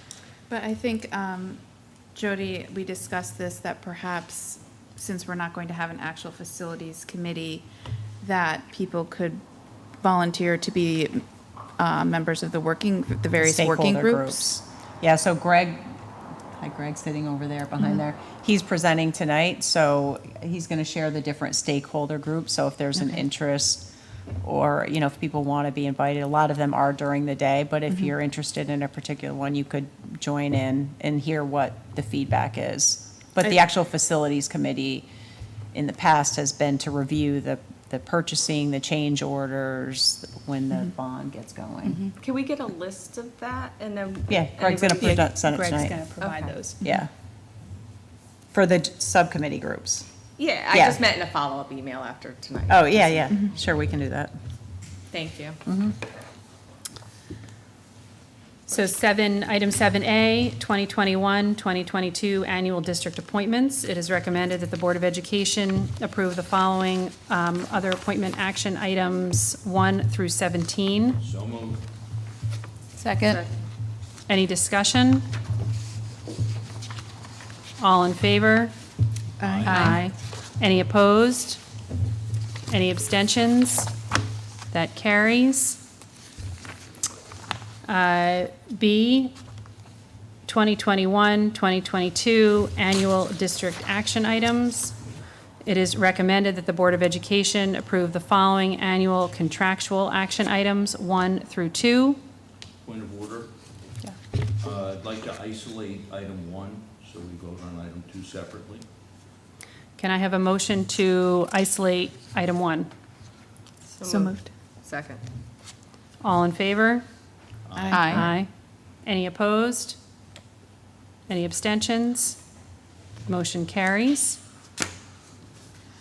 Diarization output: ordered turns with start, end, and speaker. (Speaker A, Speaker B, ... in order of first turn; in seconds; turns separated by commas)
Speaker A: 0.5-1.6, Speaker A: 2.1-7.7, Speaker A: 8.2-9.4, Speaker A: 10.0-11.2, Speaker A: 11.8-14.5, Speaker B: 13.4-16.0, Speaker B: 16.5-23.9, Speaker B: 24.4-35.1, Speaker B: 35.7-42.1, Speaker C: 42.0-45.3, Speaker B: 44.3-47.1, Speaker D: 45.5-46.8, Speaker B: 48.5-50.1, Speaker C: 50.4-53.5, Speaker B: 50.7-51.0, Speaker B: 52.7-54.4, Speaker C: 55.1-55.6, Speaker B: 55.7-56.0, Speaker D: 58.7-71.2, Speaker E: 71.2-71.8, Speaker C: 73.2-73.6, Speaker D: 74.3-75.3, Speaker D: 77.8-78.7, Speaker E: 79.4-80.0, Speaker A: 79.4-80.0, Speaker D: 79.7-81.6, Speaker D: 82.7-83.9, Speaker D: 84.7-85.8, Speaker D: 87.8-89.4, Speaker D: 90.5-95.0, Speaker D: 95.6-102.2, Speaker E: 102.8-103.5, Speaker E: 104.6-108.8, Speaker D: 110.0-112.9, Speaker C: 113.9-115.2, Speaker A: 114.0-114.5, Speaker D: 116.2-117.0, Speaker E: 117.7-118.3, Speaker A: 117.7-118.2, Speaker D: 117.9-118.5, Speaker D: 119.0-120.0, Speaker D: 121.3-122.4, Speaker D: 123.3-124.4